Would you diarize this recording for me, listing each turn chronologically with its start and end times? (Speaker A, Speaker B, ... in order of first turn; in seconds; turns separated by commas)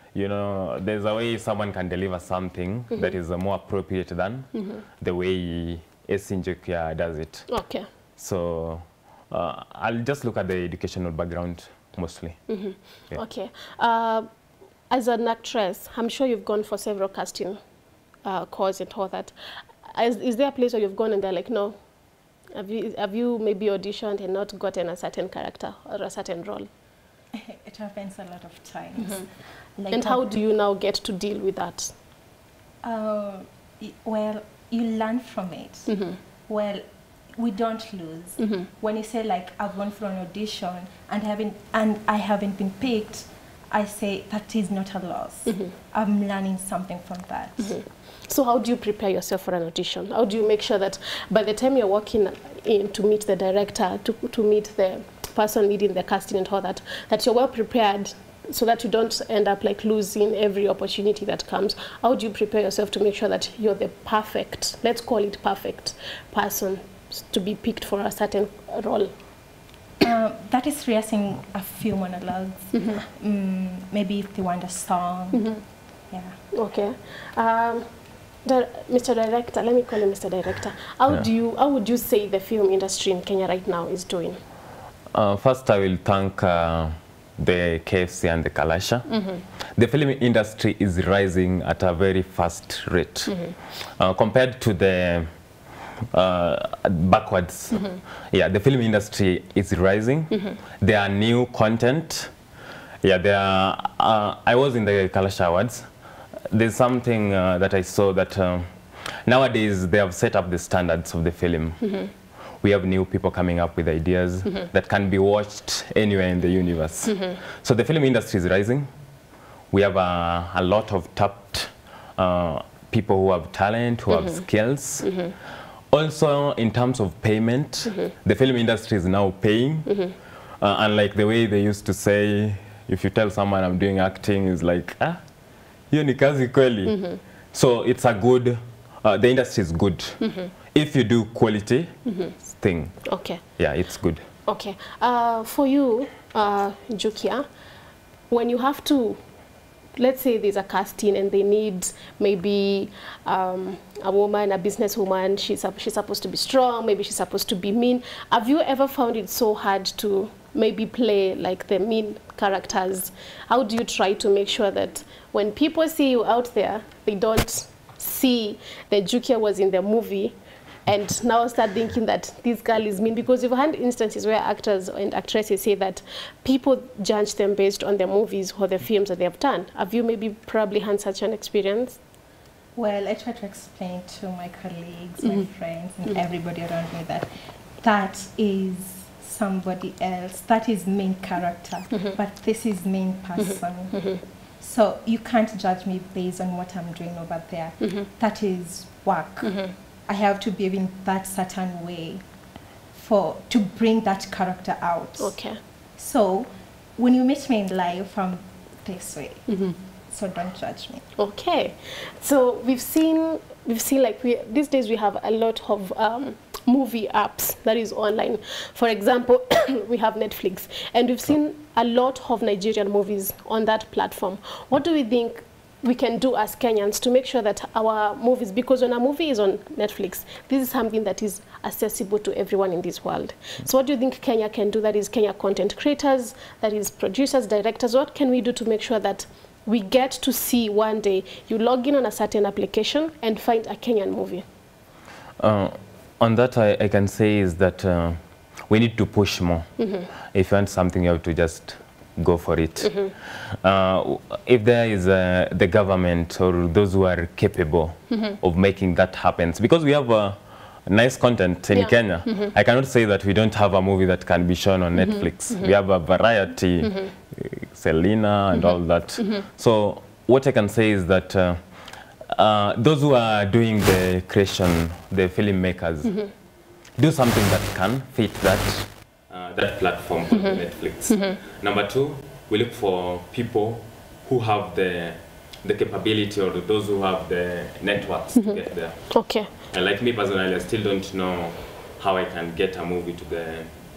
Speaker A: 0.1-7.6, Speaker B: 4.5-4.8, Speaker B: 7.5-7.9, Speaker A: 8.2-12.5, Speaker B: 12.5-14.3, Speaker B: 14.9-17.6, Speaker B: 18.2-21.8, Speaker B: 22.5-26.7, Speaker C: 27.3-30.3, Speaker B: 29.9-31.9, Speaker C: 32.8-35.9, Speaker B: 35.9-36.2, Speaker C: 36.5-47.8, Speaker B: 38.4-38.7, Speaker B: 47.6-69.1, Speaker C: 70.0-75.5, Speaker B: 75.3-75.6, Speaker C: 76.1-76.4, Speaker B: 76.5-77.9, Speaker B: 78.4-84.4, Speaker A: 85.1-89.1, Speaker B: 89.1-89.4, Speaker A: 89.8-95.3, Speaker B: 93.3-93.5, Speaker A: 96.1-102.3, Speaker A: 103.0-105.9, Speaker A: 106.5-112.0, Speaker A: 112.6-118.9, Speaker A: 119.7-125.2, Speaker B: 125.0-125.3, Speaker A: 125.9-135.2, Speaker A: 135.9-141.9, Speaker B: 136.9-137.2, Speaker B: 140.2-140.5, Speaker B: 142.1-142.3, Speaker A: 142.5-144.3, Speaker B: 143.0-143.4, Speaker B: 144.4-147.4, Speaker B: 148.3-149.2, Speaker B: 150.0-182.0, Speaker C: 182.8-187.3, Speaker C: 187.8-202.2, Speaker B: 199.4-199.8, Speaker C: 202.9-211.1, Speaker B: 205.2-205.6, Speaker B: 209.5-209.8, Speaker B: 211.2-244.4, Speaker A: 245.4-249.7, Speaker B: 249.8-250.1, Speaker A: 250.3-271.6, Speaker B: 252.8-253.1, Speaker B: 261.7-262.5, Speaker A: 272.3-276.3, Speaker A: 277.0-293.7, Speaker B: 281.1-281.4, Speaker B: 289.1-289.5